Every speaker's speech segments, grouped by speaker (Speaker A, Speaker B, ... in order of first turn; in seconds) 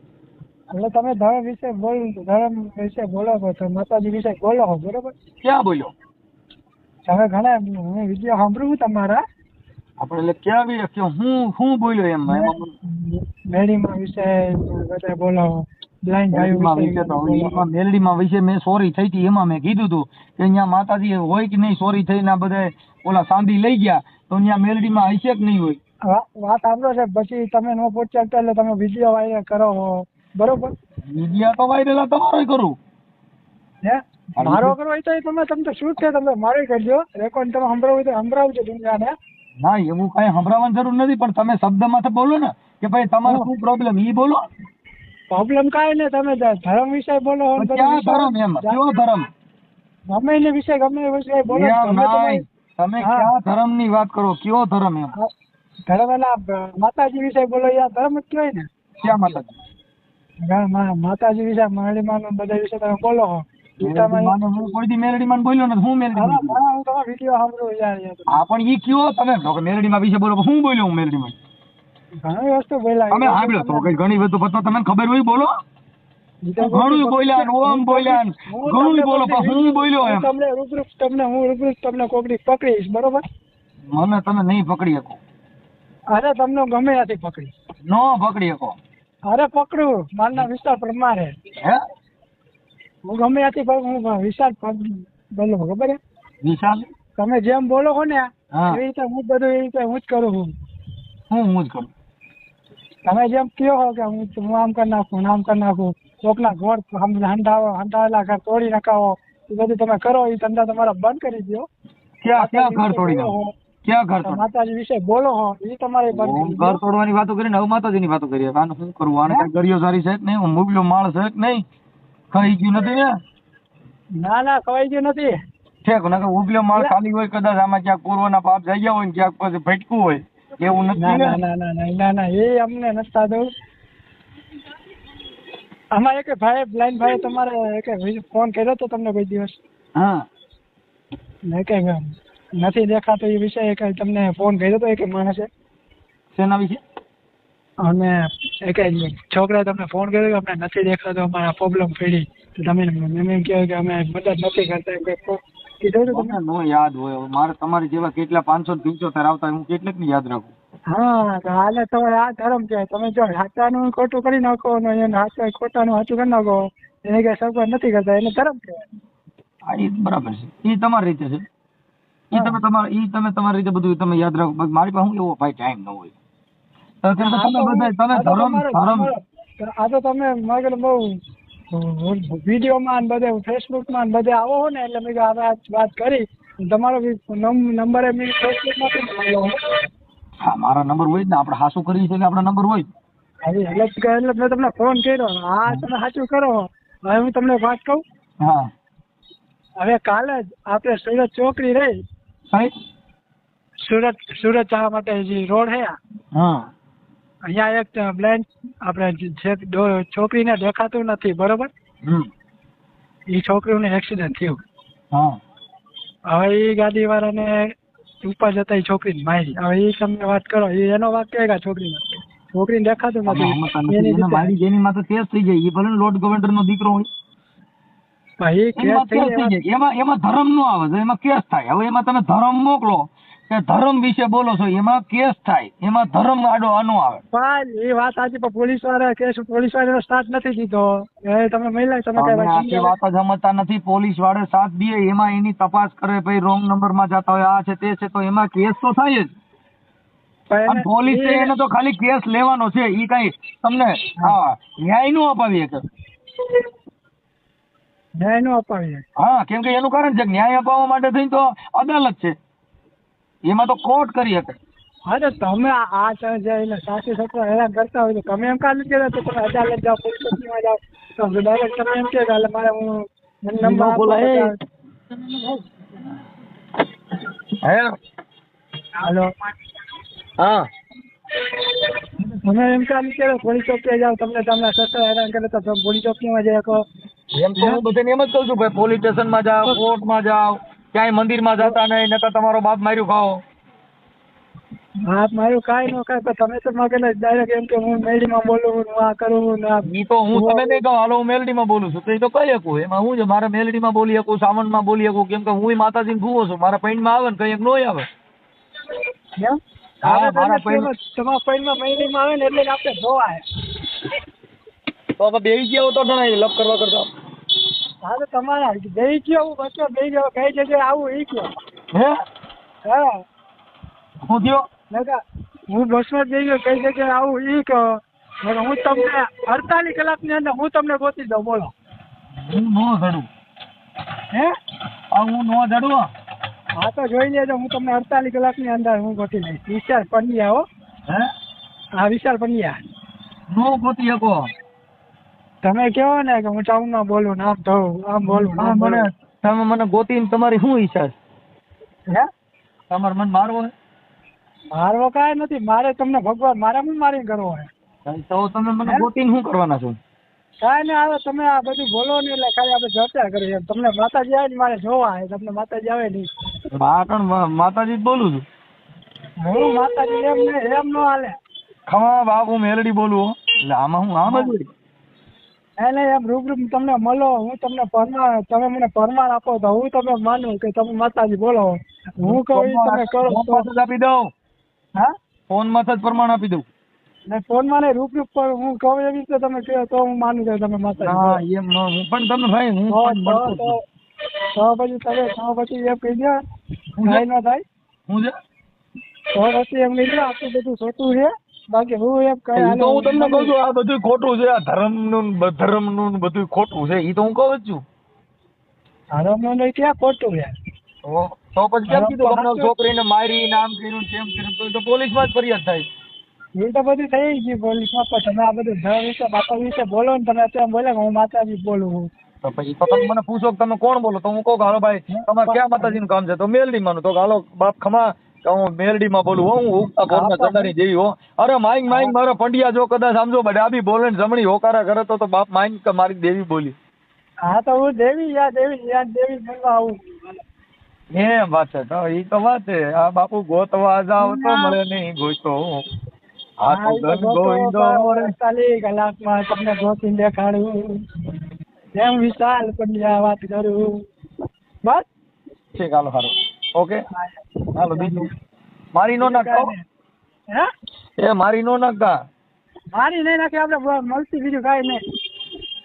Speaker A: 0.7-5.1, 7.0-9.2, 12.3-17.6, 26.1-30.7, 33.8-39.1, 43.2-43.5, 45.3-48.8, 50.1-52.5, 53.0-53.3, 55.9-59.2, 60.4-64.4, 66.2-68.4, 72.2-73.9, 76.5-83.2, 86.1-87.5, 89.3-91.3, 93.0-96.0, 97.2-100.5, 103.0-111.7, 112.4-113.5, 114.2-116.8, 124.2-125.3, 131.0-133.5, 135.9-139.6, 141.5-145.5, 147.8-156.4, 160.9-168.8, 172.3-172.6, 177.2-181.2, 181.7-189.6, 193.4-198.0, 199.8-202.0, 203.8-206.0, 207.4-211.7, 213.3-214.6, 216.3-217.7, 218.2-224.5, 228.4-229.6, 237.3-242.9, 250.5-251.5, 258.2-259.0, 265.1-274.6, 279.0-279.3, 282.4-286.8, 295.1-300.8, 309.4-313.4, 318.0-321.5, 322.9-323.2, 324.9-325.2, 325.7-331.7, 336.8-340.7, 342.0-342.8, 345.6-349.1, 354.7-357.7, 360.6-366.3, 369.4-371.4, 374.3-374.5, 375.8-383.7, 387.3-391.4, 392.9-393.8, 394.6-396.4, 397.1-397.6, 399.4-403.5, 409.1-410.5, 411.9-412.7, 416.6-422.1, 425.1-426.0, 430.1-430.7, 437.4-440.2, 444.2-444.8, 446.7-451.0, 452.0-453.8, 457.1-458.3, 459.2-459.8, 462.9-465.0
Speaker B: 5.4-5.9, 10.0-12.7, 16.3-25.8, 31.1-32.8, 34.4-34.8, 39.6-44.4, 47.6-49.3, 51.5-55.1, 59.0-59.5, 63.8-66.6, 68.3-71.4, 73.1-75.5, 76.6-80.3, 83.9-85.2, 87.8-88.8, 96.4-96.8, 98.5-98.8, 101.3-101.9, 112.2-114.4, 116.1-121.6, 122.3-123.2, 125.8-131.4, 140.0-140.3, 146.3-146.8, 156.1-160.5, 169.7-171.4, 172.3-176.1, 177.0-179.1, 190.4-192.9, 198.4-198.7, 206.3-206.7, 212.0-212.3, 215.1-215.4, 223.3-227.1, 228.8-237.2, 242.2-249.3, 250.7-255.8, 259.2-262.4, 263.5-264.6, 273.6-274.5, 277.6-277.9, 280.4-280.6, 287.4-293.4, 299.9-308.1, 310.1-310.9, 315.2-317.1, 324.2-324.7, 332.4-333.3, 335.1-336.1, 343.5-344.5, 348.3-351.1, 352.9-353.7, 358.1-360.0, 366.7-368.4, 371.9-374.7, 382.2-384.3, 385.5-386.7, 391.0-393.8, 397.0-397.2, 398.1-398.3, 402.6-407.8, 411.1-415.9, 422.4-436.8, 441.1-445.8, 446.6-448.3, 455.8-457.0, 457.8-458.3, 458.9-459.7, 461.2-462.1